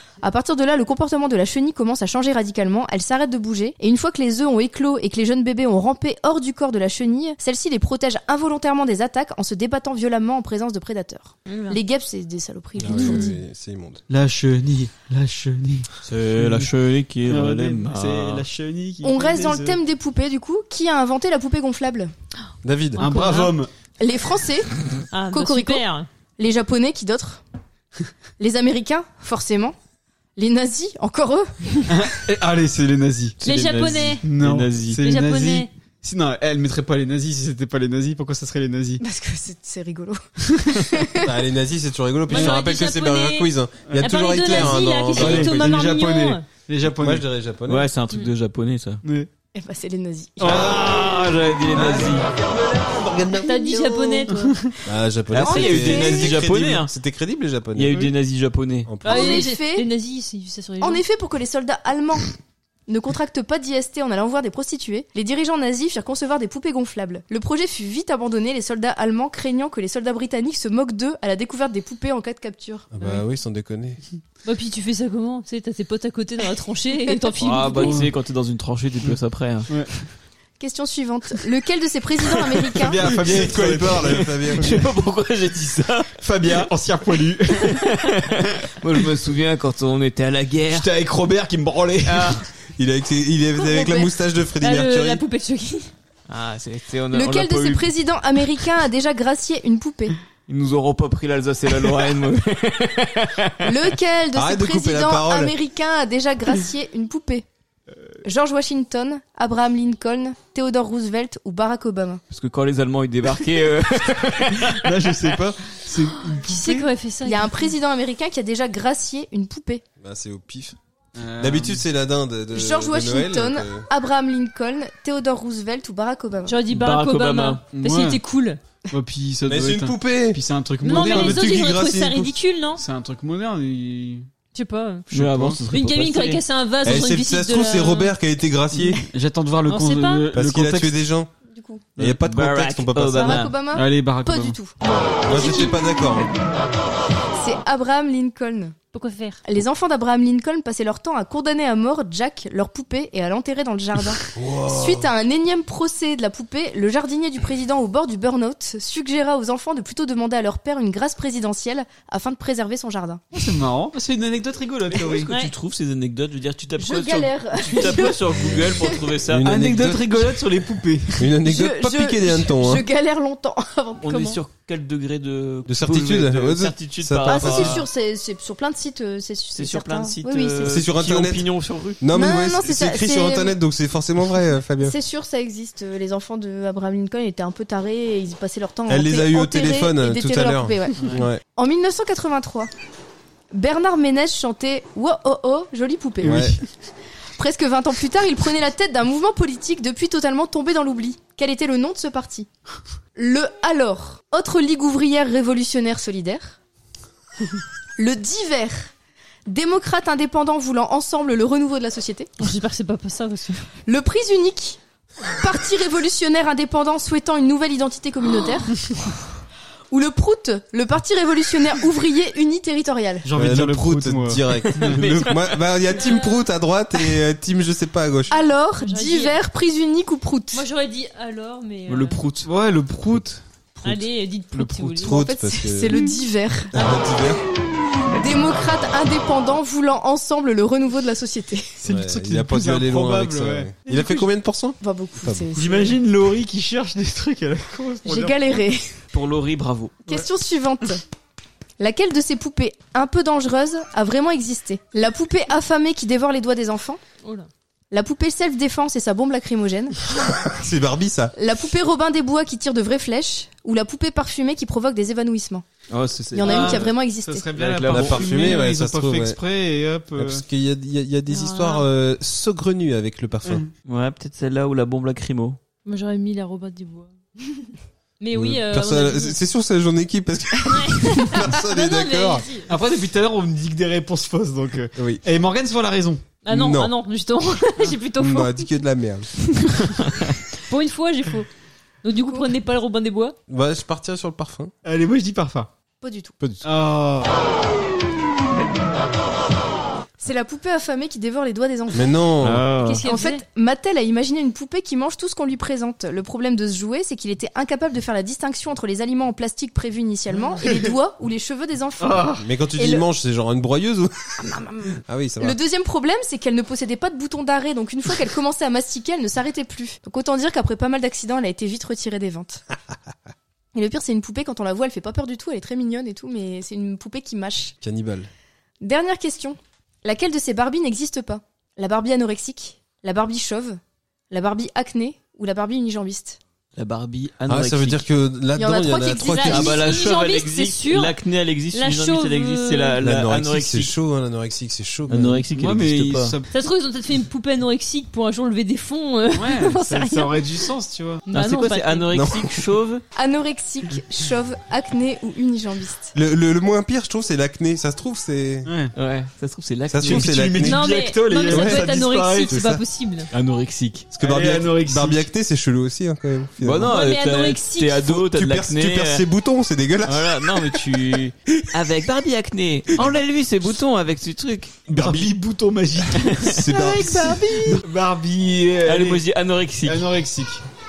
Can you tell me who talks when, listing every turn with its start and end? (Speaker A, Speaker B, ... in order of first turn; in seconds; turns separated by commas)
Speaker A: 0.2-13.4, Speaker B: 11.5-11.8, Speaker C: 12.8-14.0, Speaker D: 14.1-16.7, Speaker E: 16.1-18.4, Speaker D: 17.3-19.8, Speaker A: 19.0-22.1, Speaker C: 22.6-23.0, Speaker B: 23.0-23.6, Speaker D: 23.0-23.7, Speaker A: 24.0-24.7, Speaker B: 25.1-26.1, Speaker A: 25.3-25.9, Speaker A: 26.4-27.4, Speaker A: 28.4-29.8, Speaker A: 30.4-31.8, Speaker D: 31.9-33.4, Speaker E: 33.4-35.0, Speaker B: 33.4-34.2, Speaker D: 34.2-39.0, Speaker B: 35.0-35.7, Speaker A: 39.0-41.3, Speaker C: 41.2-45.7, Speaker B: 42.3-46.5, Speaker D: 43.9-47.2, Speaker C: 46.9-47.9, Speaker E: 47.7-49.0, Speaker D: 49.0-49.3, Speaker A: 49.5-50.7, Speaker E: 50.4-52.3, Speaker C: 50.5-51.0, Speaker C: 51.7-54.2, Speaker B: 53.5-54.6, Speaker D: 54.4-54.7, Speaker C: 54.8-58.0, Speaker E: 55.3-56.9, Speaker A: 55.5-56.4, Speaker E: 57.8-58.9, Speaker C: 58.9-59.5, Speaker B: 59.0-61.0, Speaker A: 59.0-59.9, Speaker A: 60.8-62.3, Speaker A: 62.9-72.9, Speaker C: 72.9-74.0, Speaker B: 74.5-78.0, Speaker E: 77.4-79.7, Speaker D: 77.8-78.1, Speaker A: 80.6-83.0, Speaker D: 82.8-84.6, Speaker C: 83.0-84.7, Speaker E: 84.0-86.7, Speaker D: 86.2-87.9, Speaker E: 87.6-90.9, Speaker D: 90.7-92.4, Speaker E: 92.0-92.4, Speaker C: 92.8-95.2, Speaker A: 93.6-94.1, Speaker B: 94.6-95.9, Speaker E: 96.3-98.0, Speaker A: 97.1-100.2, Speaker E: 100.5-103.7, Speaker A: 103.6-107.5, Speaker C: 104.3-105.5, Speaker A: 108.2-112.2, Speaker E: 112.3-114.9, Speaker D: 114.6-116.9, Speaker B: 116.4-117.8, Speaker A: 117.2-119.8, Speaker C: 120.0-120.8, Speaker D: 121.2-121.8, Speaker C: 121.4-123.9, Speaker A: 122.5-126.6, Speaker B: 126.5-128.6, Speaker E: 126.7-127.6, Speaker D: 127.7-128.2, Speaker D: 128.9-131.6, Speaker C: 129.5-132.3, Speaker B: 130.8-132.8, Speaker D: 132.8-134.3, Speaker B: 134.5-135.1, Speaker D: 135.1-135.6, Speaker E: 135.1-136.4, Speaker B: 135.7-138.1, Speaker C: 136.8-139.0, Speaker D: 139.1-140.9, Speaker B: 139.7-140.3, Speaker C: 140.3-141.3, Speaker A: 141.5-141.9, Speaker C: 142.0-143.5, Speaker E: 142.1-143.6, Speaker A: 143.2-145.8, Speaker D: 143.7-144.6, Speaker C: 145.2-146.3, Speaker A: 147.4-148.8, Speaker B: 148.9-149.4, Speaker A: 149.4-163.2, Speaker C: 154.3-155.1, Speaker D: 163.3-165.3, Speaker E: 164.9-169.5, Speaker A: 166.8-169.0, Speaker C: 169.3-170.4, Speaker D: 169.4-171.3, Speaker C: 171.2-172.9, Speaker A: 171.4-174.4, Speaker E: 174.0-177.9, Speaker C: 175.7-177.8, Speaker A: 177.2-180.8, Speaker E: 179.5-182.0, Speaker C: 180.7-181.5, Speaker C: 182.0-185.0, Speaker A: 182.1-183.6, Speaker A: 184.8-192.7, Speaker C: 188.9-191.4, Speaker A: 193.5-196.5, Speaker C: 196.2-196.6, Speaker D: 196.2-196.6, Speaker A: 197.4-202.5, Speaker A: 203.2-206.6, Speaker A: 208.0-208.9, Speaker A: 209.5-212.3, Speaker B: 212.4-213.7, Speaker A: 213.9-218.9, Speaker A: 219.9-223.3, Speaker D: 223.2-225.0, Speaker C: 223.3-228.4, Speaker E: 224.7-225.6, Speaker B: 226.0-226.4, Speaker A: 228.3-230.7, Speaker B: 228.8-229.4, Speaker B: 230.5-232.2, Speaker E: 231.9-232.5, Speaker D: 232.4-235.1, Speaker B: 233.8-235.2, Speaker C: 235.0-236.0, Speaker A: 235.1-236.7, Speaker B: 236.7-237.0, Speaker C: 236.8-237.4, Speaker A: 238.1-241.8, Speaker D: 241.8-243.9, Speaker C: 241.9-245.5, Speaker A: 244.0-244.2, Speaker A: 244.8-246.0, Speaker D: 245.6-248.6, Speaker A: 248.0-249.0, Speaker E: 249.1-250.0, Speaker A: 250.1-251.0, Speaker A: 251.8-257.0, Speaker B: 257.2-257.5, Speaker A: 257.9-260.0, Speaker C: 260.2-261.3, Speaker A: 261.4-265.6, Speaker E: 265.9-266.9, Speaker A: 266.3-267.5, Speaker D: 266.4-270.4, Speaker E: 267.6-268.6, Speaker C: 267.9-269.4, Speaker C: 270.2-273.7, Speaker B: 271.3-271.9, Speaker E: 273.9-275.6, Speaker B: 275.9-277.7, Speaker B: 278.2-279.4, Speaker C: 278.3-282.5, Speaker B: 280.6-282.7, Speaker D: 282.7-286.3, Speaker C: 285.0-285.2, Speaker B: 286.4-288.7, Speaker C: 286.5-286.9, Speaker C: 288.2-289.3, Speaker B: 290.7-291.5, Speaker B: 292.0-293.4, Speaker C: 293.5-294.7, Speaker D: 294.9-295.7, Speaker A: 296.0-296.4, Speaker D: 296.6-297.3, Speaker A: 300.2-302.3, Speaker C: 301.9-302.7, Speaker E: 302.4-303.1, Speaker A: 302.8-313.1, Speaker B: 303.0-303.4, Speaker D: 312.1-312.4, Speaker C: 312.4-314.4, Speaker A: 314.4-322.6, Speaker C: 315.1-315.6, Speaker A: 323.7-327.8, Speaker C: 327.8-328.3, Speaker A: 328.8-333.8, Speaker A: 334.3-336.4, Speaker E: 336.8-338.0, Speaker C: 337.5-339.8, Speaker A: 338.6-340.0, Speaker B: 339.3-341.1, Speaker E: 339.4-343.9, Speaker B: 341.7-343.0, Speaker C: 343.0-345.4, Speaker E: 345.1-346.3, Speaker D: 345.5-346.5, Speaker B: 346.5-350.7, Speaker D: 349.3-351.2, Speaker B: 351.3-352.1, Speaker E: 351.3-353.0, Speaker C: 352.1-352.6, Speaker A: 353.1-356.1, Speaker C: 356.1-358.7, Speaker D: 358.6-358.9, Speaker E: 359.0-360.5, Speaker C: 359.9-360.9, Speaker D: 360.0-362.6, Speaker B: 360.6-363.3, Speaker C: 361.5-361.9, Speaker C: 362.5-362.8, Speaker E: 363.3-364.1, Speaker C: 364.1-367.1, Speaker D: 364.2-365.2, Speaker E: 366.6-369.3, Speaker B: 366.9-368.0, Speaker C: 368.0-370.8, Speaker E: 370.1-375.0, Speaker D: 374.9-379.2, Speaker C: 374.9-375.3, Speaker E: 376.1-376.7, Speaker C: 376.6-377.6, Speaker A: 376.8-377.8, Speaker E: 378.8-380.1, Speaker D: 379.9-380.6